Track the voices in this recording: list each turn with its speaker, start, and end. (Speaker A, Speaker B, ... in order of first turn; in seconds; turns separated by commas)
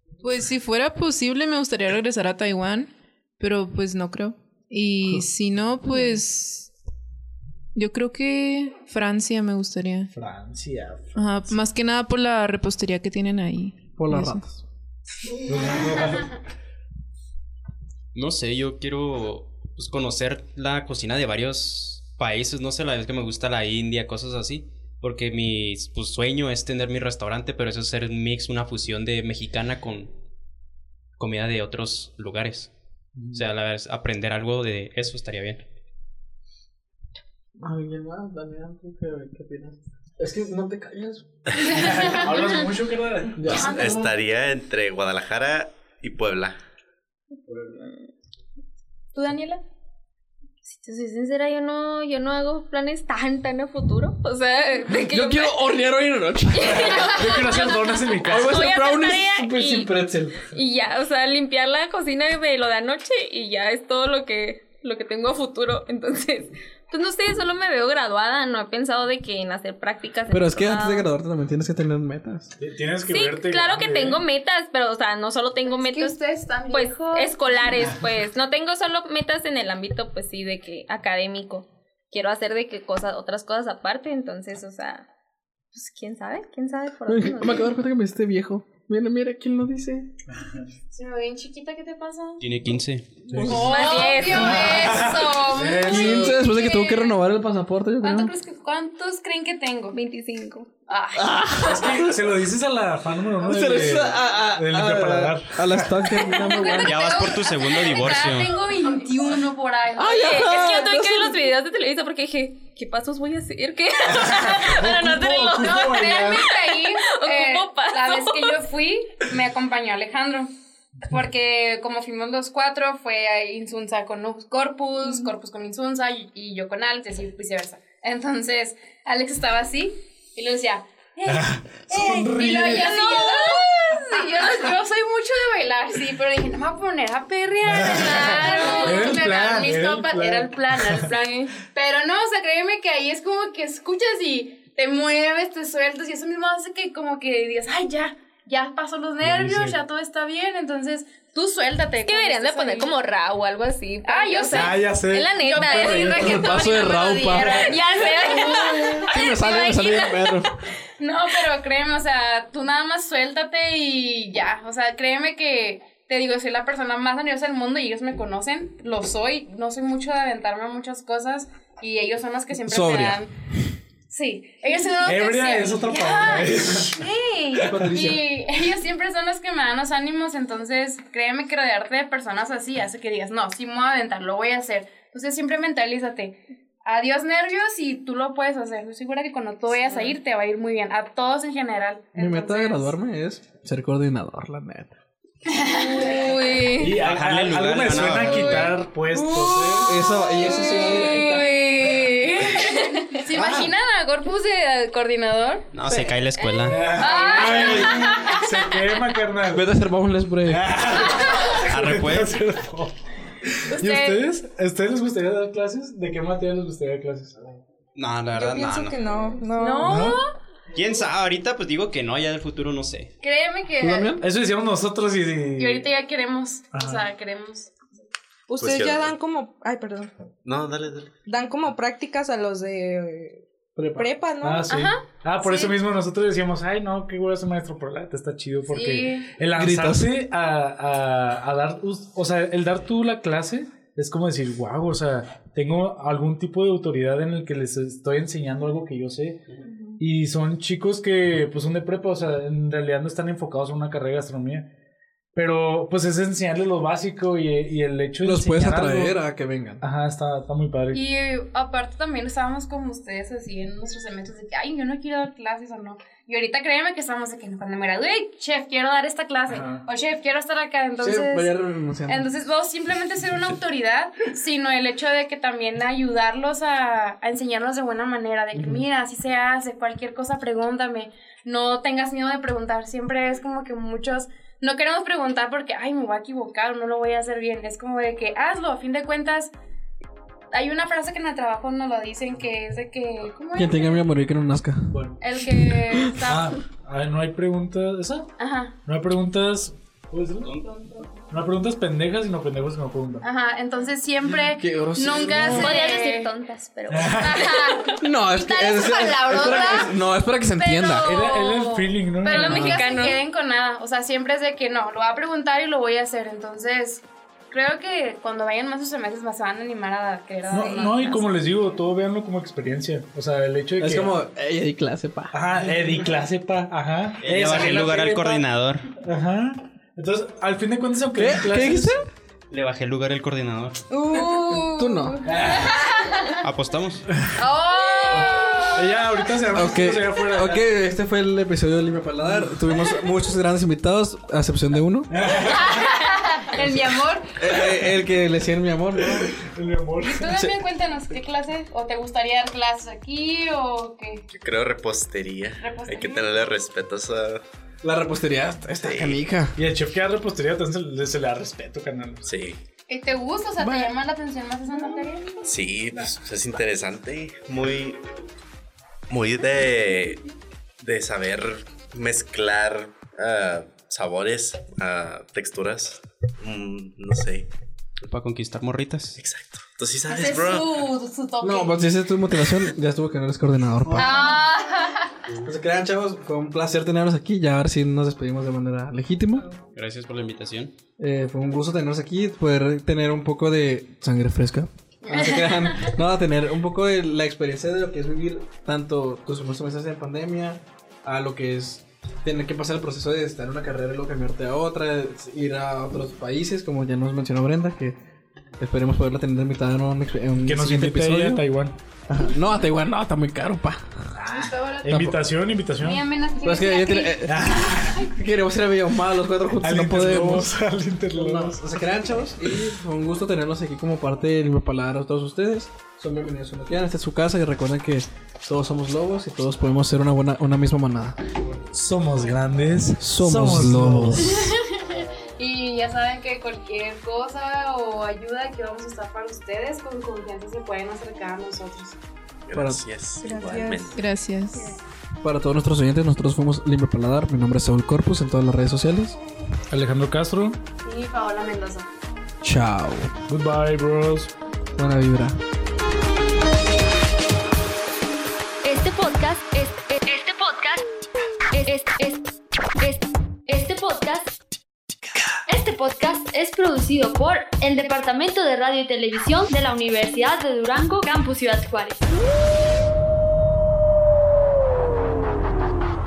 Speaker A: 0.2-6.7, Speaker A: 7.7-10.1, Speaker B: 10.1-11.6, Speaker A: 11.1-14.4, Speaker C: 14.0-14.6, Speaker B: 15.4-16.3, Speaker D: 18.1-30.1, Speaker D: 31.2-32.7, Speaker B: 33.1-33.5, Speaker D: 33.3-35.6, Speaker C: 37.6-41.9, Speaker B: 41.6-44.1, Speaker E: 41.9-42.2, Speaker C: 43.4-43.8, Speaker E: 43.5-44.1, Speaker F: 43.7-46.6, Speaker G: 49.1-49.6, Speaker G: 50.7-55.7, Speaker C: 54.9-57.6, Speaker G: 56.5-71.1, Speaker B: 56.9-58.6, Speaker C: 58.2-60.5, Speaker C: 70.3-72.5, Speaker B: 72.6-74.2, Speaker G: 73.1-76.2, Speaker E: 75.7-77.7, Speaker G: 76.7-85.1, Speaker G: 85.7-87.7, Speaker C: 87.1-90.1, Speaker B: 90.3-90.6, Speaker E: 90.9-92.5, Speaker D: 92.4-93.1, Speaker C: 93.3-93.9, Speaker B: 93.3-93.7, Speaker E: 93.4-97.2, Speaker G: 93.5-95.0, Speaker B: 94.3-96.4, Speaker C: 95.8-98.3, Speaker E: 98.0-100.0, Speaker G: 99.9-100.7, Speaker E: 100.9-101.9, Speaker C: 101.2-102.2, Speaker B: 101.6-106.7, Speaker C: 103.4-107.0, Speaker E: 106.3-110.8, Speaker D: 106.7-108.6, Speaker C: 110.0-111.4, Speaker G: 110.0-118.6, Speaker B: 114.1-116.5, Speaker E: 115.6-120.5, Speaker E: 121.0-152.9, Speaker B: 131.3-132.9, Speaker G: 132.7-134.5, Speaker B: 137.6-141.1, Speaker G: 138.4-139.2, Speaker B: 149.2-149.8, Speaker G: 152.0-156.2, Speaker E: 154.0-159.2, Speaker B: 154.5-156.5, Speaker C: 156.1-157.8, Speaker G: 157.4-160.4, Speaker C: 159.1-160.5, Speaker E: 161.0-173.3, Speaker C: 172.6-173.2, Speaker E: 174.1-192.9, Speaker B: 175.0-177.9, Speaker C: 177.7-178.3, Speaker G: 189.8-190.2, Speaker C: 192.1-194.9, Speaker E: 195.5-196.7, Speaker G: 195.8-197.0, Speaker B: 196.8-200.1, Speaker D: 196.9-198.7, Speaker E: 199.1-205.7, Speaker C: 199.8-201.5, Speaker G: 201.4-202.2, Speaker B: 203.3-203.7, Speaker D: 205.7-207.0, Speaker E: 206.4-208.6, Speaker B: 206.7-209.6, Speaker G: 207.2-207.5, Speaker C: 207.4-208.1, Speaker C: 209.5-210.7, Speaker B: 210.4-217.4, Speaker E: 211.2-211.6, Speaker D: 211.7-212.4, Speaker E: 213.7-214.2, Speaker D: 217.9-219.0, Speaker H: 218.3-220.0, Speaker G: 219.6-220.2, Speaker E: 219.6-220.2, Speaker B: 219.9-220.2, Speaker D: 220.7-223.1, Speaker E: 223.2-224.2, Speaker C: 223.8-224.2, Speaker B: 224.2-225.9, Speaker E: 225.6-227.7, Speaker B: 226.7-227.0, Speaker H: 228.5-230.1, Speaker F: 228.6-229.1, Speaker F: 230.4-231.1, Speaker H: 231.2-234.7, Speaker C: 233.8-234.1, Speaker B: 234.4-249.4, Speaker E: 234.7-235.8, Speaker E: 238.7-239.3, Speaker C: 239.5-240.1, Speaker B: 250.0-254.7, Speaker B: 255.3-259.2, Speaker C: 258.2-259.8, Speaker B: 259.8-261.0, Speaker E: 260.9-271.5, Speaker B: 269.5-269.8, Speaker C: 271.0-272.3, Speaker E: 272.1-289.5, Speaker E: 290.5-294.1, Speaker C: 293.6-295.0, Speaker B: 294.9-295.2, Speaker E: 295.2-296.6, Speaker C: 295.6-296.1, Speaker B: 296.2-298.3, Speaker E: 298.4-298.7, Speaker B: 298.9-300.5, Speaker D: 300.4-300.8, Speaker B: 301.3-303.2, Speaker E: 303.2-306.3, Speaker C: 304.3-305.7, Speaker G: 305.5-308.0, Speaker B: 306.9-307.4, Speaker E: 307.1-310.0, Speaker C: 308.0-311.1, Speaker E: 310.6-321.6, Speaker B: 311.1-312.8, Speaker G: 312.2-313.2, Speaker C: 312.3-312.8, Speaker B: 320.5-324.1, Speaker C: 323.8-325.3, Speaker B: 325.3-328.4, Speaker D: 327.2-328.9, Speaker B: 329.0-332.0, Speaker C: 331.2-332.1, Speaker D: 332.5-333.8, Speaker E: 333.9-336.4, Speaker C: 334.6-335.2, Speaker B: 335.2-335.7, Speaker D: 336.4-337.0, Speaker B: 337.1-337.4, Speaker E: 337.4-339.1, Speaker B: 338.1-340.6, Speaker C: 339.5-345.1, Speaker B: 342.2-342.8, Speaker B: 345.1-345.9, Speaker E: 345.3-347.6, Speaker C: 347.4-349.3, Speaker B: 349.0-350.3, Speaker E: 350.0-354.2, Speaker F: 354.3-357.4, Speaker E: 355.6-356.3, Speaker C: 357.8-359.6, Speaker F: 358.8-359.2, Speaker B: 359.6-362.3, Speaker F: 362.2-362.6, Speaker E: 362.9-365.4, Speaker F: 365.4-368.0, Speaker F: 369.1-370.2, Speaker F: 370.8-377.5, Speaker D: 378.0-379.2, Speaker F: 379.2-380.8, Speaker E: 380.1-381.7, Speaker C: 381.4-384.4, Speaker E: 383.9-385.2, Speaker C: 385.4-389.5, Speaker D: 389.7-390.7, Speaker C: 391.0-407.9, Speaker C: 408.6-411.4, Speaker B: 410.4-411.7, Speaker C: 412.1-414.1, Speaker B: 414.1-416.0, Speaker E: 414.2-414.9, Speaker C: 414.9-415.2, Speaker E: 415.7-418.1, Speaker C: 416.4-417.4, Speaker B: 417.2-418.1, Speaker C: 418.1-420.5, Speaker B: 419.6-421.6, Speaker C: 421.1-431.2, Speaker B: 431.7-434.4, Speaker C: 433.0-434.3, Speaker E: 434.2-434.8, Speaker E: 435.4-441.9, Speaker F: 442.5-443.9, Speaker C: 442.5-442.8, Speaker H: 443.2-443.9, Speaker A: 443.9-444.7, Speaker C: 445.2-449.2, Speaker B: 449.7-450.6, Speaker E: 450.8-451.9, Speaker C: 452.4-453.1, Speaker B: 453.3-454.3, Speaker C: 454.8-455.3, Speaker I: 458.6-460.8, Speaker I: 461.5-462.3, Speaker I: 462.8-464.3, Speaker I: 465.5-472.0